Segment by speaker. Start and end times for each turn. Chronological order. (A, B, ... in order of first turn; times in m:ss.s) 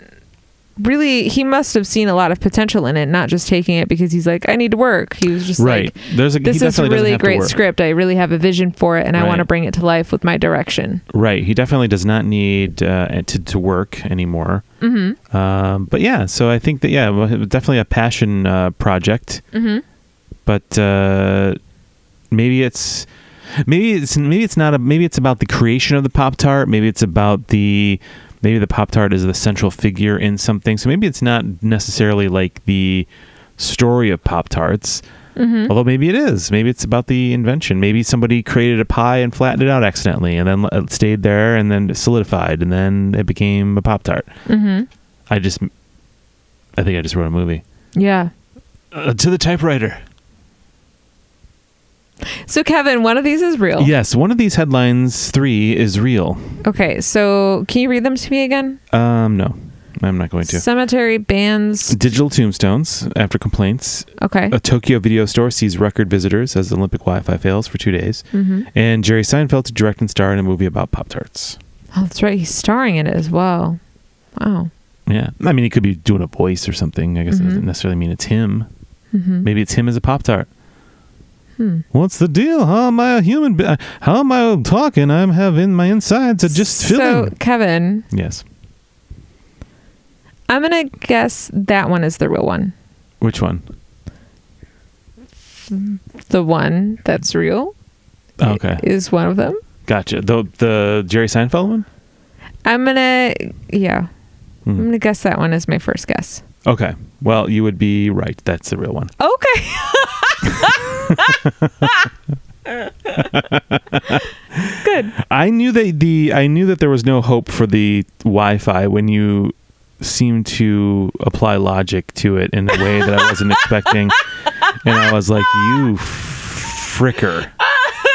0:00.8-0:11.0 A
0:05.6-0:07.6 B
0:09.2-0:09.5 B
0:11.1-0:14.6 B
0:14.8-0:15.2 A
0:15.3-0:19.4 B
0:19.5-0:19.8 A
0:20.5-0:21.6 B
0:22.3-0:23.1 B
0:23.6-0:35.0 B
0:35.4-0:35.7 A
0:35.7-0:44.3 B
0:44.5-0:44.9 A
0:45.3-0:45.7 B
0:46.8-0:47.6 B
0:48.0-0:48.3 A
0:48.9-0:50.0 B
0:52.4-0:53.9 A
0:53.8-0:56.6 B
0:56.6-0:58.8 A
0:58.9-1:00.6 B
1:00.4-1:02.0 A
1:01.9-1:11.6 B
1:04.2-1:04.6 A
1:08.3-1:08.7 A
1:11.9-1:13.8 A
1:14.4-1:14.7 A
1:15.1-1:18.7 B
1:17.3-1:17.7 A
1:19.1-1:19.5 A
1:19.4-1:20.5 B
1:21.6-1:21.8 A
1:21.9-1:27.3 B
1:26.5-1:28.1 A
1:28.1-1:28.4 B
1:30.5-1:32.7 A
1:33.2-1:33.6 B
1:35.7-1:37.7 A
1:38.4-1:38.8 B
1:38.4-1:39.6 A
1:39.9-1:41.9 B
1:42.6-1:44.1 A
1:44.8-1:46.4 A
1:46.6-1:49.1 B
1:49.2-1:52.1 A
1:50.6-1:51.9 B
1:53.1-2:07.5 B
1:54.8-1:55.1 A